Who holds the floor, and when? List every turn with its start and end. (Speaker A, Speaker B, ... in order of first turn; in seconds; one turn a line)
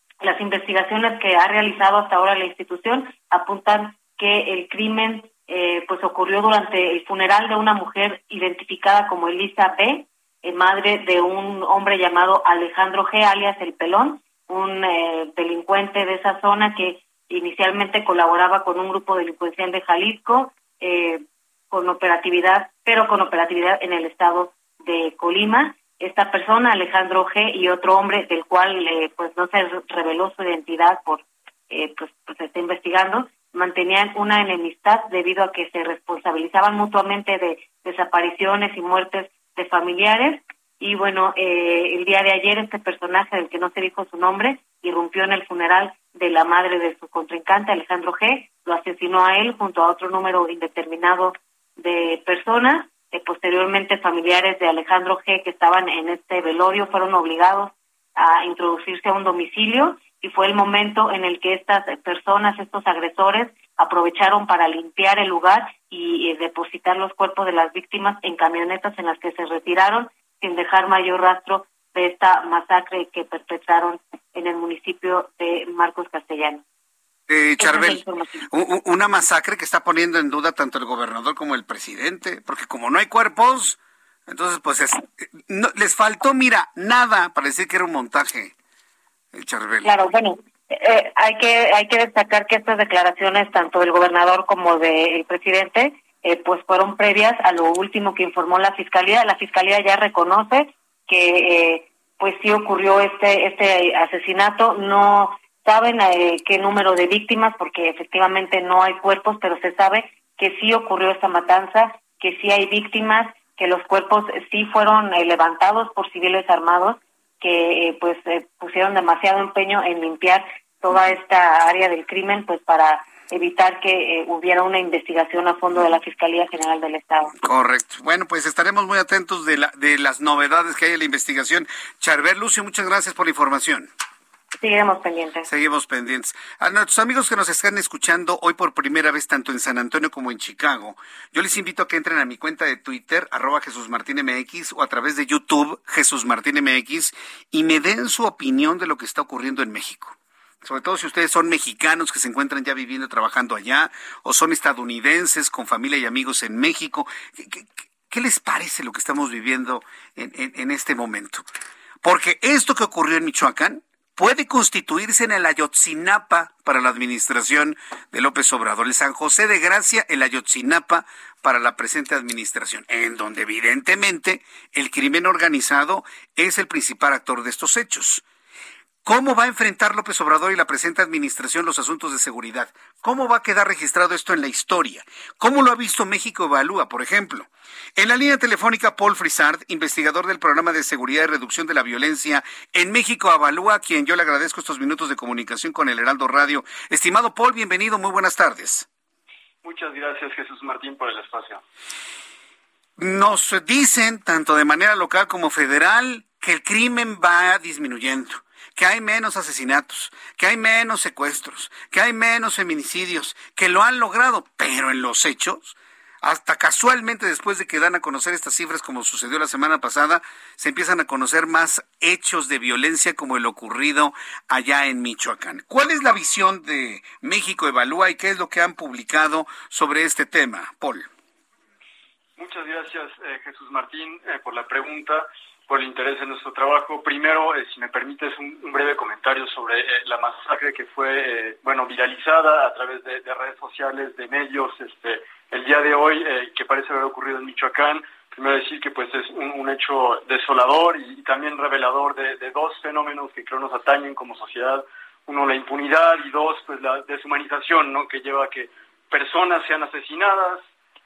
Speaker A: 0.2-76.6
Speaker B: 77.3-88.5
Speaker A: 77.6-78.5
Speaker B: 89.3-89.9
Speaker A: 89.8-127.3
Speaker B: 127.4-133.9
Speaker A: 134.6-135.5
Speaker B: 135.5-161.4
Speaker B: 162.0-178.2
Speaker B: 179.1-198.9
Speaker C: 199.6-201.6
Speaker B: 203.0-231.1
Speaker C: 232.4-260.6